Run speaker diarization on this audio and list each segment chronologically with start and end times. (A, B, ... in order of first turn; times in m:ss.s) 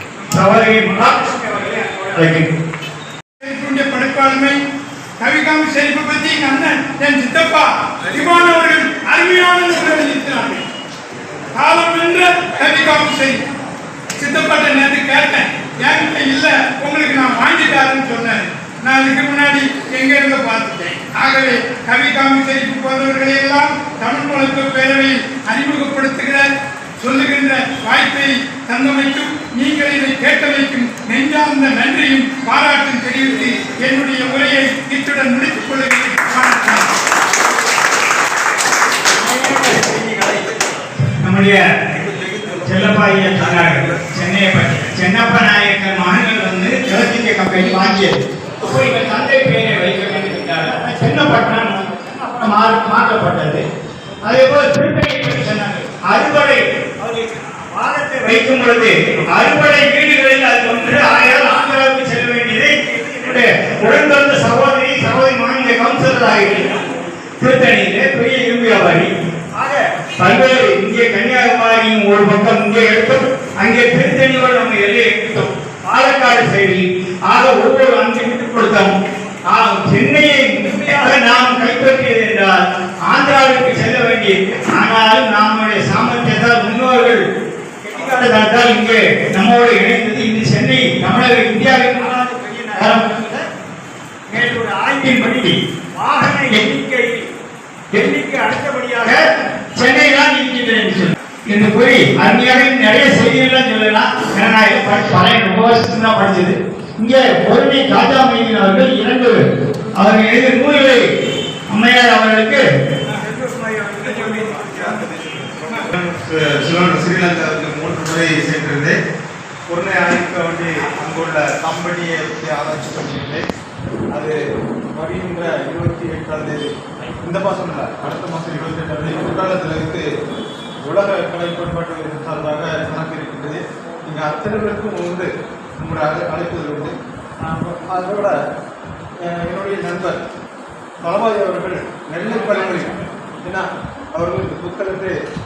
0:00.3-0:02.5 A
0:03.4-0:04.6 B
0:05.2-0:10.6 B
0:11.5-0:13.4 B
0:14.2-0:36.9 B
0:39.1-0:40.6 C
0:41.2-0:41.7 A
0:42.0-0:42.6 C
0:42.6-0:53.6 A
0:54.2-1:06.8 A
1:07.4-1:18.9 A
1:19.5-1:22.6 A
1:23.1-1:27.2 A
1:27.8-1:33.4 A
1:34.3-1:37.2 A
1:37.9-1:39.2 A
1:39.8-1:49.4 A
1:50.0-1:51.0 A
1:51.7-1:52.6 A
1:53.2-1:58.9 C
1:59.7-2:03.4 C
2:04.9-2:06.7 C
2:07.2-2:10.0 C
2:10.8-2:18.4 C
2:19.2-2:20.2 C
2:21.0-2:25.1 C